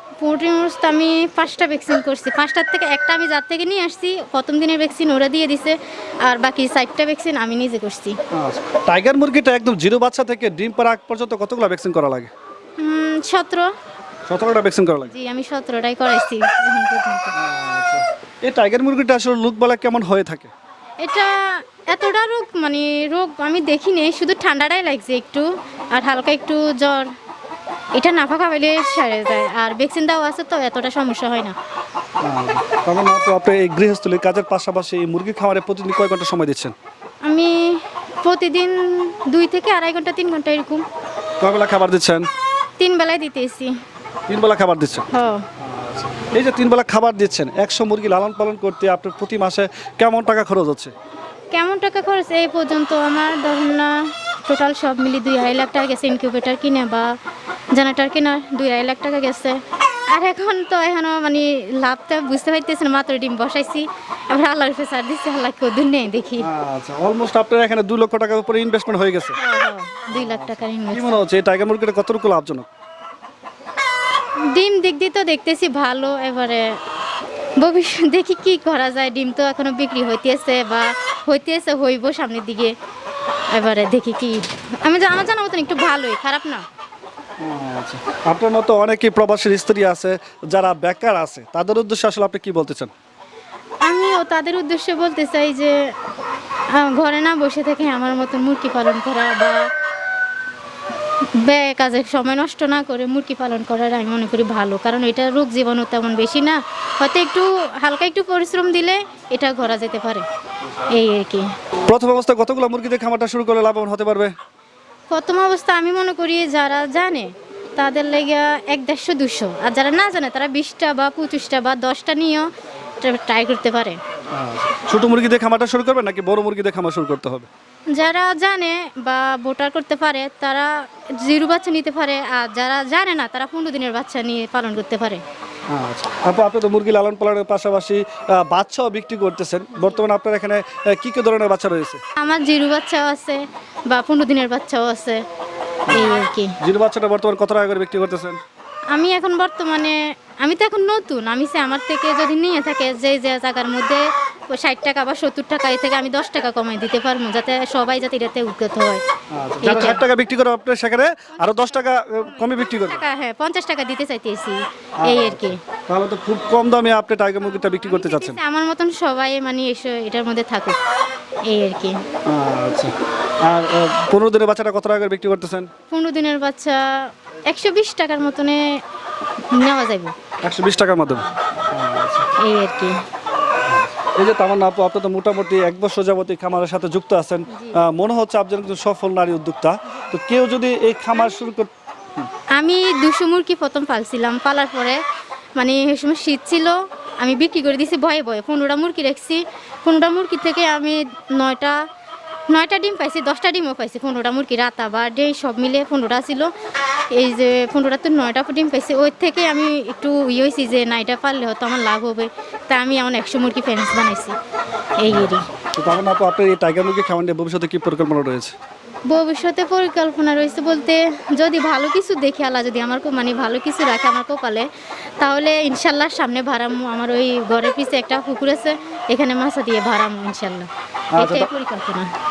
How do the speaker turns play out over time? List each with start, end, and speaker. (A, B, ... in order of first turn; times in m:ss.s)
0:00.2-0:08.2 A
0:08.3-0:12.3 B
0:12.8-0:13.7 A
0:14.3-0:15.1 B
0:15.1-0:17.3 A
0:17.4-0:20.5 B
0:21.0-0:27.1 A
0:28.0-0:31.6 A
0:32.2-0:36.7 B
0:37.2-0:40.8 A
0:41.4-0:42.3 B
0:42.8-0:43.8 A
0:44.3-0:50.9 B
0:45.1-0:45.5 A
0:51.5-0:57.1 A
0:57.7-1:06.5 A
1:06.4-1:09.4 B
1:09.4-1:11.1 A
1:10.1-1:12.7 B
1:14.4-1:16.8 A
1:17.6-1:22.8 A
1:23.5-1:26.6 A
1:27.4-1:32.9 B
1:33.8-1:35.9 A
1:36.7-1:39.7 A
1:41.3-1:50.3 A
1:50.9-1:51.5 A
1:51.9-1:54.3 B
1:55.1-2:02.5 A
2:03.0-2:04.0 A
2:04.3-2:07.5 B
2:07.9-2:15.2 A
2:15.7-2:22.0 B
2:22.2-2:25.2 A
2:25.9-2:28.4 B
2:25.9-2:26.6 A
2:28.9-2:39.0 A
2:39.3-2:43.0 B
2:39.6-2:40.0 A
2:42.2-2:45.6 A
2:45.0-2:48.4 B
2:47.6-2:50.8 A
2:51.5-2:52.0 A
2:52.2-2:55.7 B
2:55.9-2:58.8 A
2:59.5-3:00.2 A
3:00.4-3:02.3 B
3:02.4-3:03.0 A
3:03.6-3:12.3 B
3:07.5-3:07.8 A
3:12.5-3:15.0 A
3:15.6-3:21.8 A
3:22.5-3:26.5 A
3:27.1-3:34.4 A
3:35.0-3:35.5 A
3:35.1-3:38.6 B
3:39.1-3:44.7 A
3:45.2-3:52.1 A
3:51.2-3:51.5 B